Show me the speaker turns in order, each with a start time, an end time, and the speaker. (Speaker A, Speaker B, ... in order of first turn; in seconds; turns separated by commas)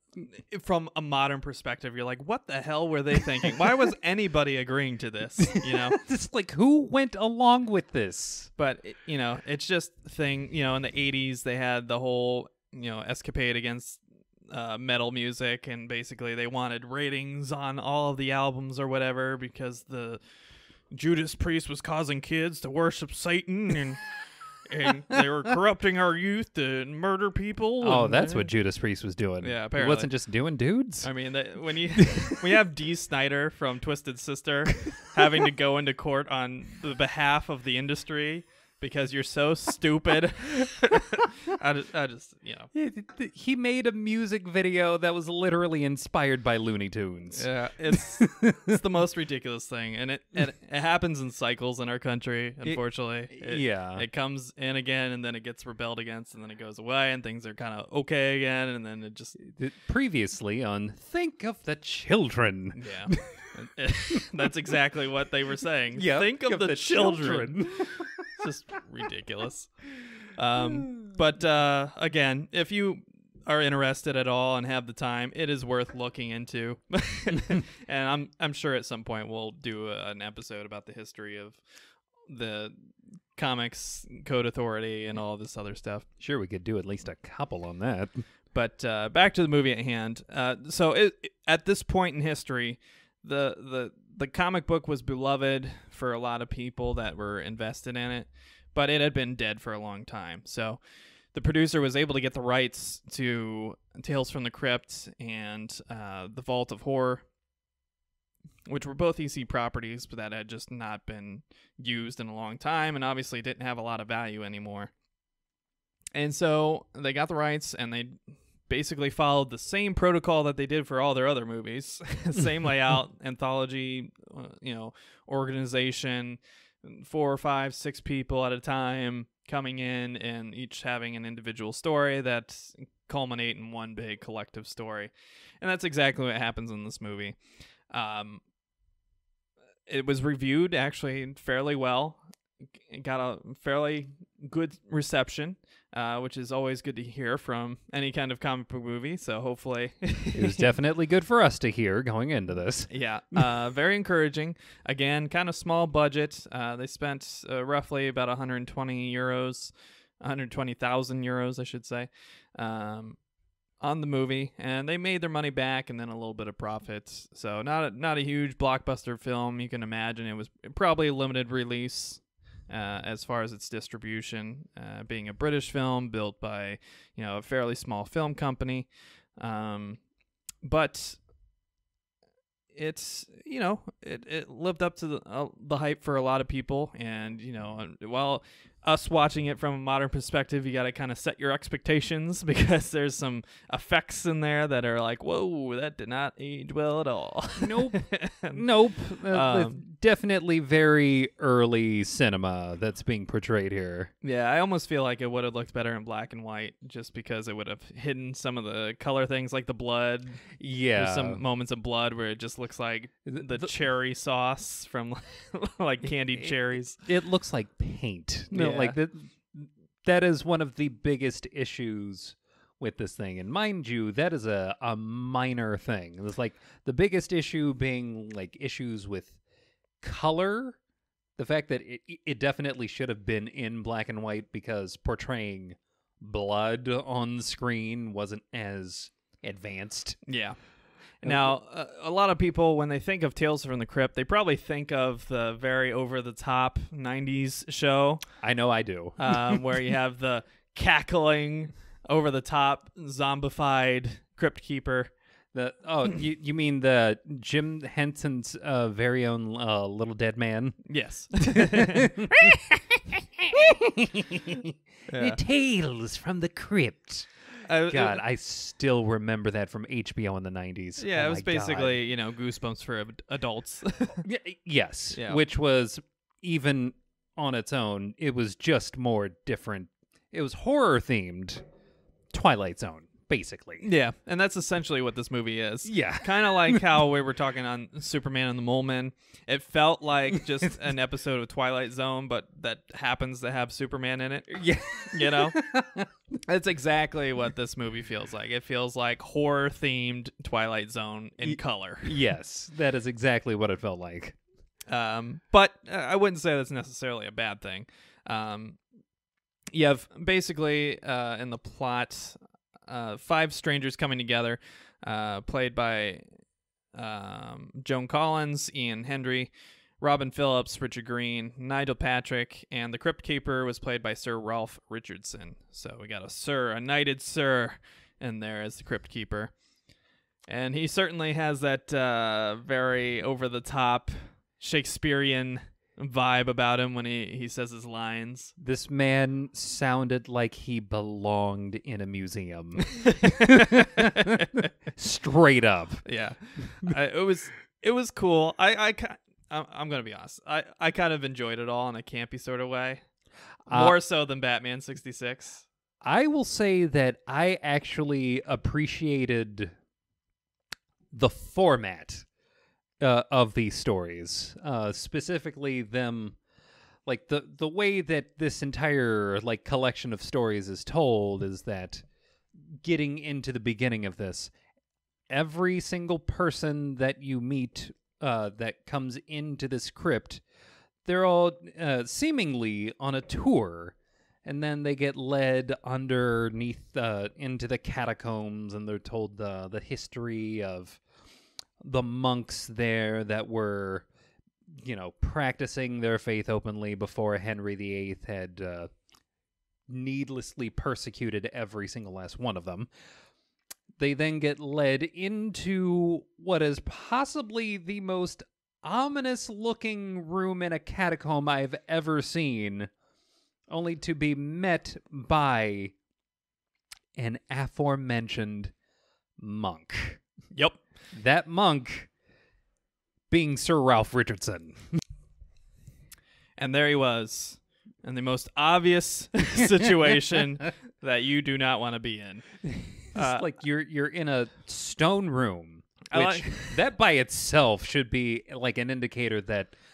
Speaker A: 0.2-6.0, Speaker B: 5.6-8.5, Speaker A: 8.6-20.2, Speaker A: 20.9-28.5, Speaker B: 27.8-31.1, Speaker A: 29.4-30.1, Speaker A: 31.0-42.7, Speaker B: 32.0-32.3, Speaker B: 42.7-48.7, Speaker A: 47.3-59.4, Speaker B: 52.6-54.0, Speaker B: 59.4-63.5, Speaker A: 62.8-81.6, Speaker B: 66.0-68.3, Speaker B: 70.5-71.0, Speaker A: 82.3-86.0, Speaker B: 86.2-88.2, Speaker A: 88.5-107.2, Speaker A: 108.7-114.9, Speaker A: 116.1-138.4, Speaker A: 139.9-142.2, Speaker A: 142.8-150.7, Speaker B: 150.3-153.4, Speaker A: 152.9-163.2, Speaker A: 163.8-180.1, Speaker A: 180.6-181.2, Speaker A: 182.7-198.6, Speaker B: 197.6-204.1, Speaker A: 199.3-199.8, Speaker A: 204.2-217.0, Speaker B: 210.6-211.4, Speaker B: 213.3-213.7, Speaker B: 216.4-229.3, Speaker A: 218.5-219.0, Speaker B: 230.0-230.8, Speaker B: 231.4-240.3, Speaker A: 240.2-248.4, Speaker B: 241.2-241.6, Speaker B: 248.4-249.6, Speaker A: 249.2-255.1, Speaker B: 255.5-260.9, Speaker A: 260.9-262.6, Speaker B: 261.7-267.3, Speaker A: 265.1-265.4, Speaker A: 267.7-268.2, Speaker B: 267.9-272.0, Speaker A: 271.0-274.2, Speaker B: 274.2-281.6, Speaker A: 275.1-275.4, Speaker B: 282.3-283.8, Speaker A: 283.8-295.6, Speaker B: 285.9-286.8, Speaker B: 294.5-296.1, Speaker A: 296.4-302.2, Speaker B: 301.4-304.4, Speaker A: 304.9-308.8, Speaker A: 309.7-316.2, Speaker A: 316.9-329.5, Speaker A: 330.5-338.5, Speaker B: 338.6-344.3, Speaker A: 342.8-344.7, Speaker B: 344.9-346.0, Speaker A: 346.0-353.0, Speaker B: 353.7-353.9, Speaker A: 353.7-355.6, Speaker B: 356.0-359.7, Speaker B: 361.1-362.2, Speaker B: 363.0-366.4, Speaker B: 367.1-372.0, Speaker B: 372.6-374.5, Speaker B: 375.3-380.4, Speaker B: 381.0-391.0, Speaker B: 391.8-394.1, Speaker B: 394.7-398.9, Speaker B: 399.9-402.9, Speaker B: 404.0-412.9, Speaker B: 413.7-415.9, Speaker B: 417.1-418.7, Speaker B: 419.4-420.2, Speaker A: 420.5-420.8, Speaker B: 421.1-422.1, Speaker B: 423.3-424.9, Speaker A: 426.6-432.6, Speaker B: 432.7-439.7, Speaker A: 433.1-433.4, Speaker A: 436.1-436.8